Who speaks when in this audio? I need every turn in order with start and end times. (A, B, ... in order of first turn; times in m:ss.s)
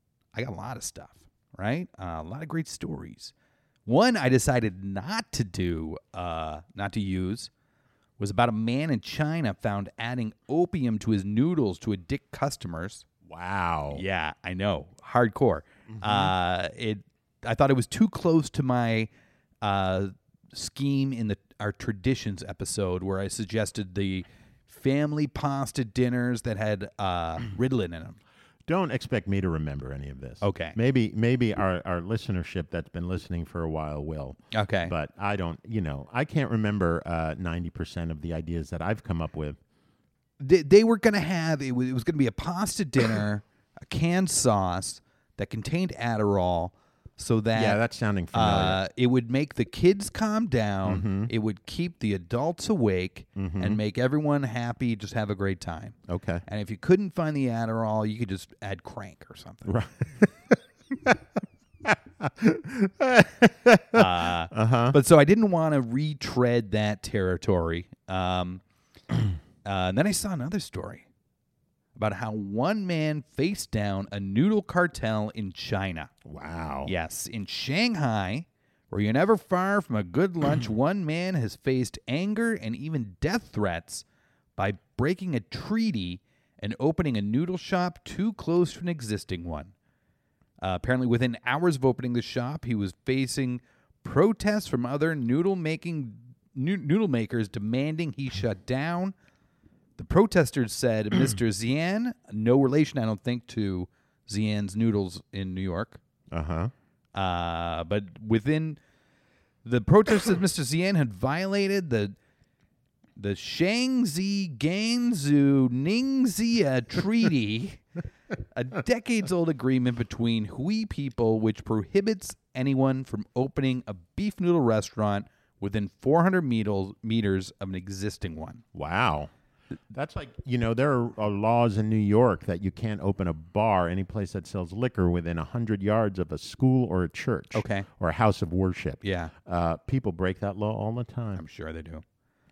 0:00.4-0:03.3 A
0:03.9-0:07.5 A
0:08.2-0:13.0 A
0:13.3-0:14.0 B
0:13.9-0:19.1 A
0:15.9-0:16.3 B
0:19.6-0:28.2 A
0:28.7-0:39.6 B
0:30.4-0:30.8 A
0:34.5-0:34.9 A
0:40.4-0:47.8 A
0:47.5-0:48.8 B
0:48.3-0:59.7 A
0:50.8-0:51.3 B
0:53.4-0:53.8 B
0:56.1-0:56.4 B
0:59.7-1:01.2 B
1:01.8-1:05.0 B
1:03.9-1:08.6 A
1:09.6-1:11.0 A
1:12.0-1:16.1 A
1:16.2-1:16.9 B
1:16.9-1:24.0 A
1:24.6-1:29.7 A
1:30.6-1:39.1 A
1:40.0-1:46.0 A
1:46.3-1:46.7 B
1:47.2-1:48.8 A
1:49.6-1:52.2 A
1:53.2-1:57.8 A
1:58.5-2:08.6 A
2:08.7-2:09.3 B
2:09.9-2:21.4 B
2:17.5-2:17.9 A
2:19.0-2:19.3 A
2:21.4-2:22.0 A